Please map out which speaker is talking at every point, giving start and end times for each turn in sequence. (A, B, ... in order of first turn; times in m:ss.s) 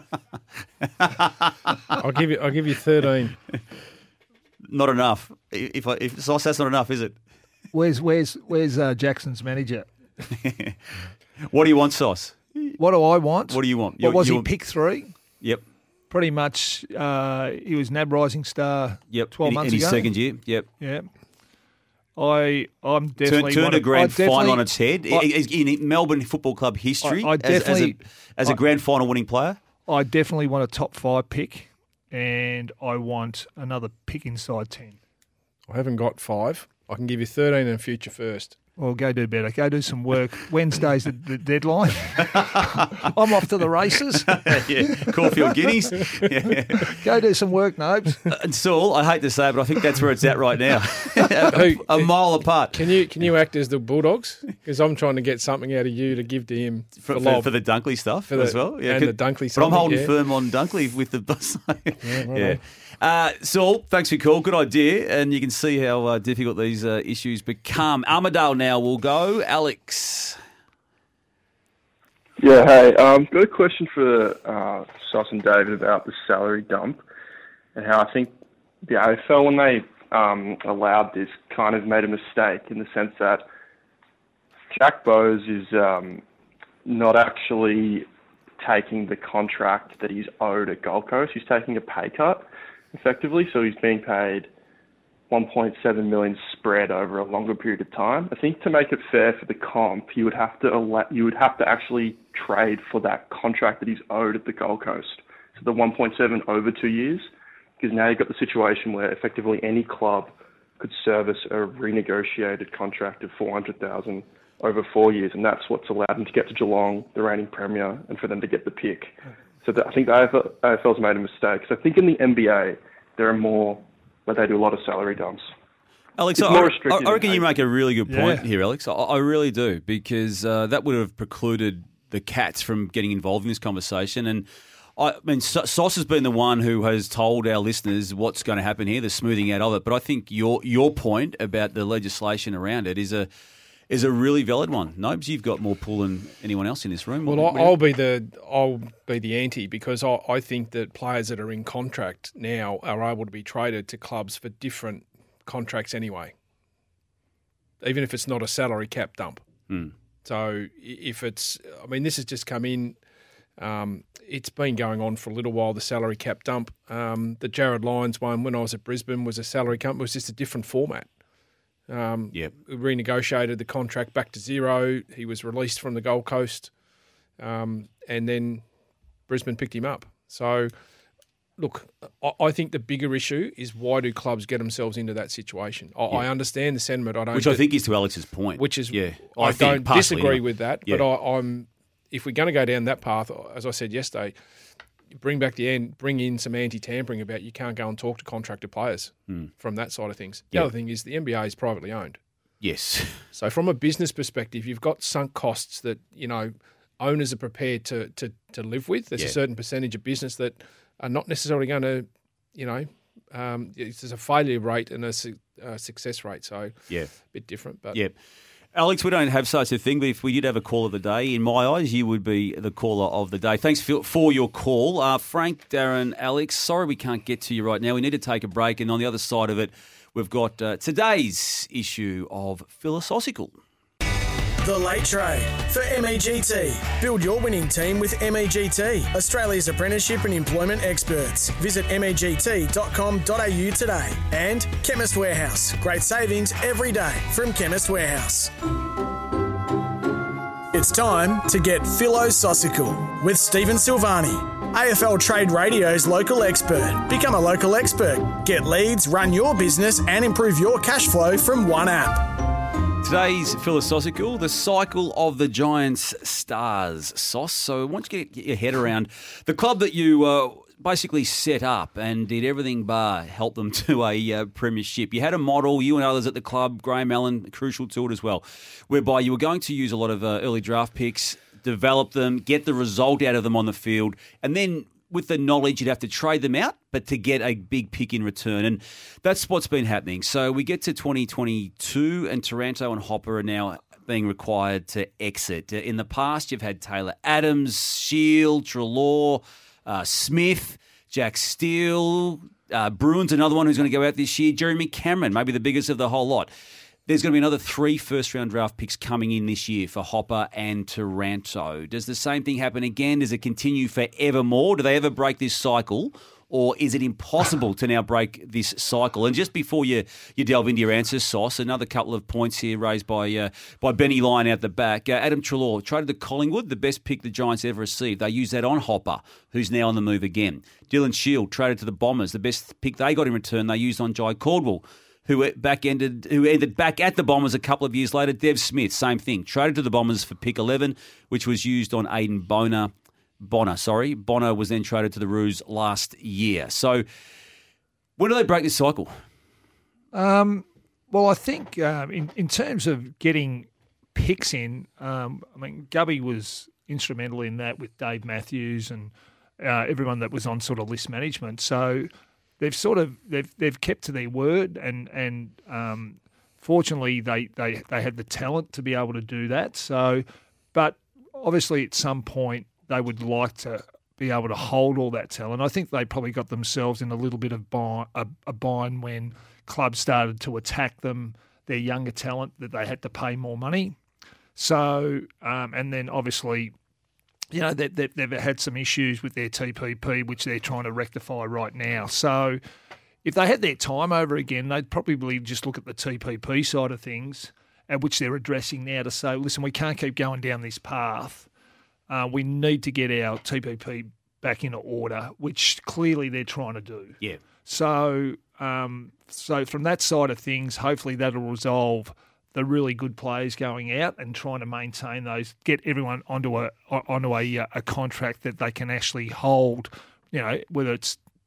0:02.0-0:03.4 A
0:04.7-0:07.1 B
0:07.7-0:09.9 C
0:10.4-0:10.8 B
0:11.5-0:12.8 B
0:12.8-0:15.1 C
0:13.5-0:14.5 B
0:16.1-0:20.1 C
0:19.1-0:20.6 B
0:20.8-0:21.1 C
0:22.2-0:25.3 C
0:23.2-0:29.6 B
0:27.0-0:28.6 C
0:29.9-0:35.0 C
0:35.7-0:38.6 A
0:38.8-0:44.4 C
0:42.4-0:42.9 B
0:44.3-0:46.9 B
0:47.0-0:48.2 C
0:48.3-0:52.8 B
0:51.5-0:52.1 A
0:52.7-0:57.5 A
0:57.0-1:10.4 B
0:58.3-1:00.1 A
1:02.0-1:02.6 A
1:12.4-1:17.0 D
1:17.7-1:23.4 D
1:24.7-1:26.2 D
1:26.8-1:28.1 D
1:28.6-1:34.5 D
1:35.3-2:05.5 D
2:06.2-2:23.3 B
2:06.4-2:07.5 D
2:08.1-2:08.4 C
2:23.9-2:27.7 B
2:27.2-2:36.3 A
2:37.8-2:39.4 A
2:40.2-2:43.0 A
2:43.6-2:51.1 A
2:51.9-2:56.7 A
2:57.4-2:58.6 A
2:59.3-3:00.7 A
3:01.6-3:07.6 A
3:07.3-3:11.0 B
3:08.6-3:14.3 A
3:15.2-3:22.2 A
3:22.6-3:23.2 B
3:23.3-3:38.0 A
3:38.7-3:53.6 B
3:54.6-4:08.5 E
4:10.7-4:22.3 E
4:23.0-5:06.5 B
5:07.1-5:47.0 B
5:48.2-5:49.1 B
5:50.1-6:24.0 C
6:24.6-6:26.7 C
6:27.5-6:32.6 C
6:33.2-6:41.5 C
6:42.1-7:01.2 C